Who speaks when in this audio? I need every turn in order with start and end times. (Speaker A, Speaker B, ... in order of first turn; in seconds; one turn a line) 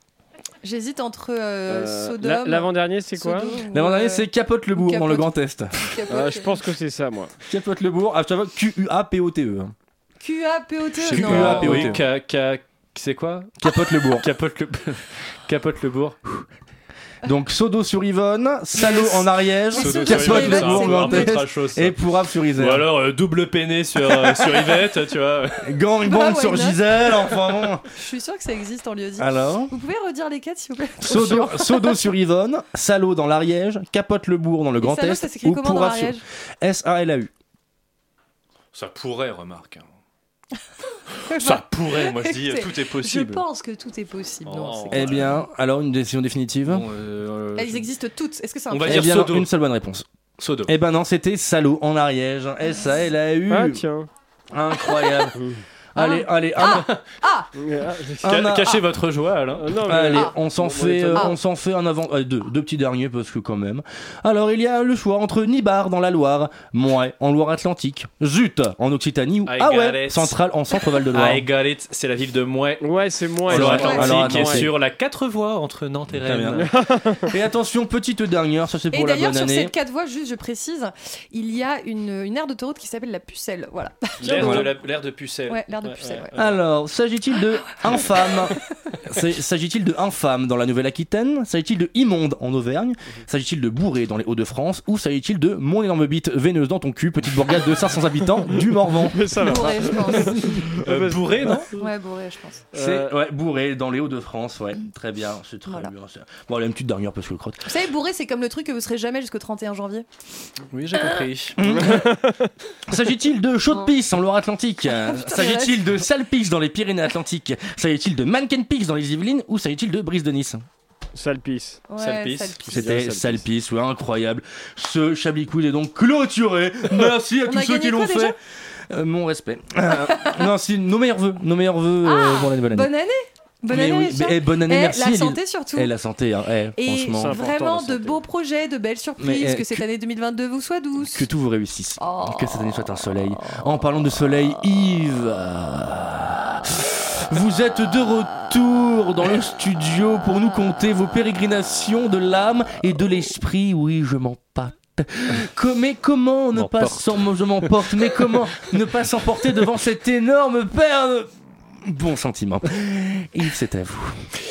Speaker A: 0.6-6.6
Speaker B: 1.7-3.6
Speaker C: 3.7-5.7
Speaker B: 6.1-7.3
Speaker C: 7.5-9.7
Speaker A: 10.2-11.9
Speaker C: 11.0-12.0
Speaker D: 11.0-13.6
Speaker C: 13.6-14.3
Speaker D: 14.1-16.4
Speaker C: 17.2-22.9
Speaker A: 18.8-21.4
Speaker D: 19.7-22.0
Speaker D: 22.5-25.6
Speaker C: 25.6-27.8
Speaker A: 26.0-26.8
Speaker A: 27.9-32.0
Speaker C: 29.2-29.7
Speaker C: 31.0-37.3
Speaker A: 34.8-36.2
Speaker D: 38.7-39.8
Speaker A: 41.2-45.2
Speaker D: 41.4-43.4
Speaker D: 44.5-45.4
Speaker C: 44.9-46.8
Speaker D: 46.7-47.9
Speaker A: 47.5-49.1
Speaker D: 48.7-49.5
Speaker C: 48.8-50.0
Speaker D: 50.4-50.7
Speaker C: 50.6-53.8
Speaker B: 53.5-54.1
Speaker C: 54.5-55.4
Speaker A: 55.0-55.2
Speaker B: 55.4-55.6
Speaker C: 55.9-56.9
Speaker A: 56.0-57.5
Speaker B: 57.6-58.2
Speaker C: 58.2-58.8
Speaker D: 58.2-59.8
Speaker B: 59.6-61.3
Speaker C: 59.8-71.4
Speaker D: 69.5-70.4
Speaker D: 71.1-76.7
Speaker B: 72.8-74.7
Speaker C: 73.5-74.7
Speaker C: 76.2-76.7
Speaker B: 76.5-77.3
Speaker C: 77.3-79.7
Speaker A: 78.9-84.7
Speaker D: 84.2-86.6
Speaker C: 84.4-84.7
Speaker A: 85.5-86.3
Speaker C: 86.3-99.7
Speaker A: 87.9-88.3
Speaker B: 99.0-101.7
Speaker A: 99.4-100.4
Speaker D: 100.8-101.7
Speaker A: 101.8-102.6
Speaker B: 102.7-103.1
Speaker C: 102.7-107.6
Speaker A: 105.7-105.9
Speaker A: 107.7-110.0
Speaker D: 110.7-111.8
Speaker C: 111.6-112.1
Speaker B: 111.6-112.5
Speaker C: 112.9-120.6
Speaker A: 115.0-115.8
Speaker B: 121.1-121.8
Speaker A: 121.9-122.9
Speaker D: 122.0-122.6
Speaker B: 122.7-123.4
Speaker C: 122.7-128.3
Speaker A: 127.4-128.3
Speaker C: 128.9-132.9
Speaker A: 132.0-135.9
Speaker C: 133.7-137.4
Speaker A: 136.8-141.3
Speaker B: 137.1-138.2
Speaker C: 139.2-139.8
Speaker C: 141.0-161.3
Speaker A: 142.0-142.6
Speaker D: 156.5-157.7
Speaker C: 161.8-164.2